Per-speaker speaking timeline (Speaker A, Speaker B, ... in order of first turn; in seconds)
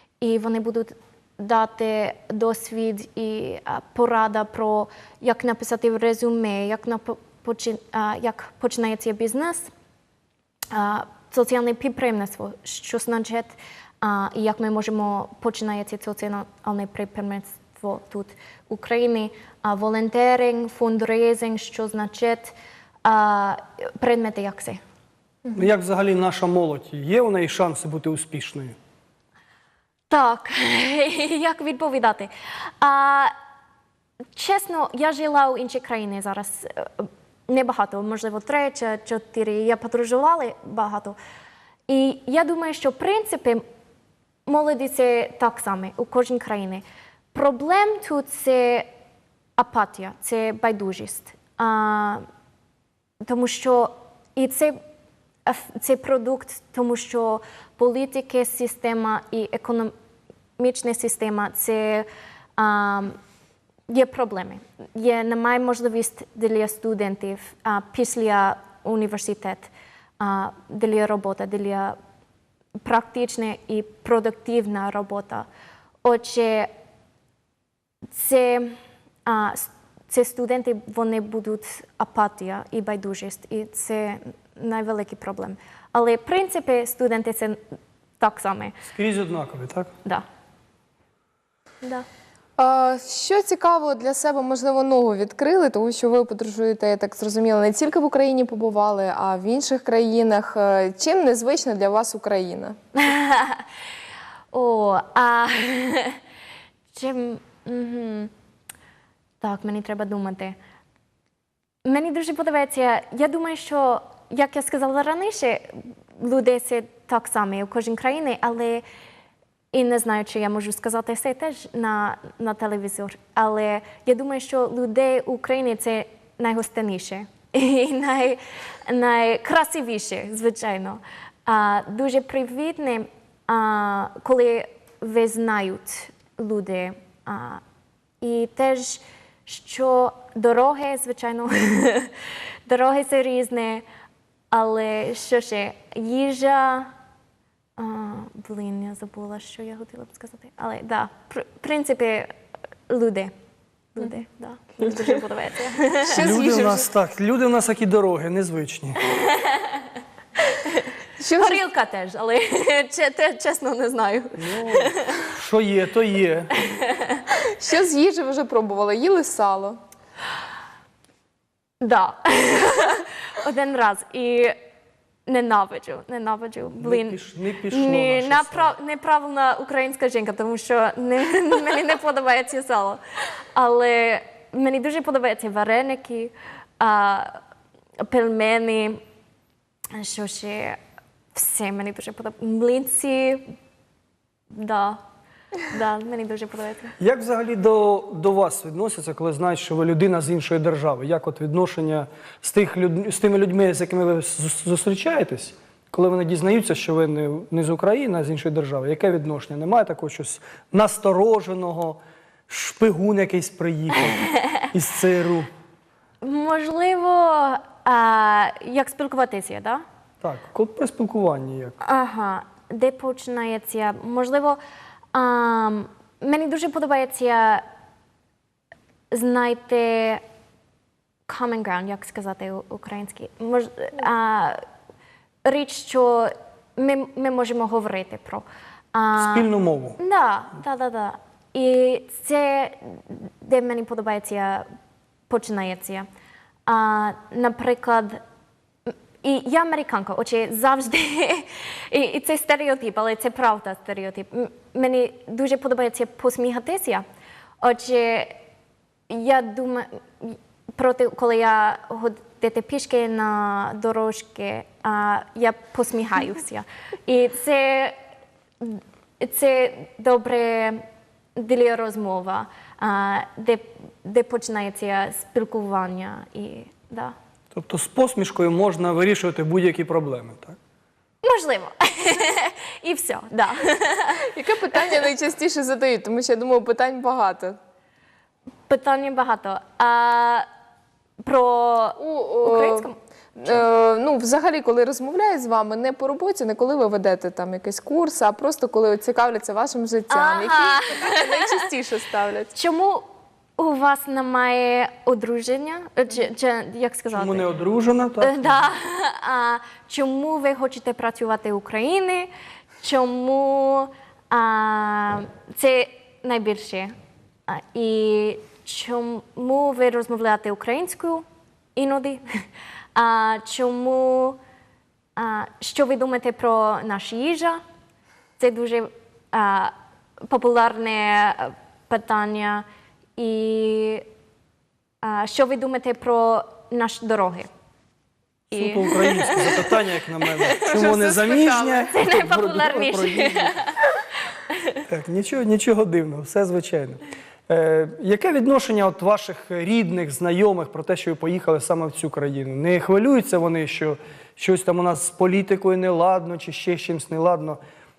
Speaker A: 0.2-9.7, 10.7-24.8, 30.1-33.3, 34.4-41.1, 41.9-43.6, 44.5-48.9, 49.6-52.2, 53.2-54.8, 55.5-59.9, 60.6-63.2, 63.9-72.0, 72.8-75.5, 76.0-76.7, 78.1-87.6, 88.2-88.8, 103.0-103.6, 104.5-106.2, 106.9-108.3, 109.4-110.5, 111.8-118.8, 119.7-137.6, 138.2-142.1, 142.7-143.8, 144.5-146.9, 147.8-152.3, 152.9-153.3, 153.9-156.2, 159.0-159.9, 160.4-165.2, 166.5-167.2, 171.8-174.5, 175.2-183.0, 183.5-187.3, 188.0-189.0, 189.9-190.8, 191.3-193.4, 194.5-195.0, 195.7-196.9, 216.2-219.8, 221.8-224.6, 225.1-227.6, 229.1-230.2, 231.3-234.6, 235.4-244.7, 245.3-246.1, 246.7-248.2, 248.9-257.0, 257.6-258.3, 259.1-267.9, 268.6-270.8, 271.4-277.1, 281.2-284.2, 288.7-290.5, 291.2-292.9, 300.1-301.5, 302.5-303.1, 303.6-307.5, 308.2-316.9, 317.5-322.2, 322.9-324.4, 325.1-327.6, 328.4-329.7, 330.3-332.6, 333.2-334.0, 335.0-337.5, 338.5-340.6, 341.9-343.8
Speaker B: 25.5-28.8, 88.9-89.9, 156.1-159.0, 164.3-166.5, 176.8-178.7, 197.0-215.5, 220.2-221.8, 239.2-240.0, 277.5-280.6, 307.1-308.6, 338.5-343.6, 344.9-357.6
Speaker C: 92.6-102.8, 156.0-156.9, 161.2-161.6, 167.5-169.8, 284.3-287.6, 292.0-302.5, 340.6-341.9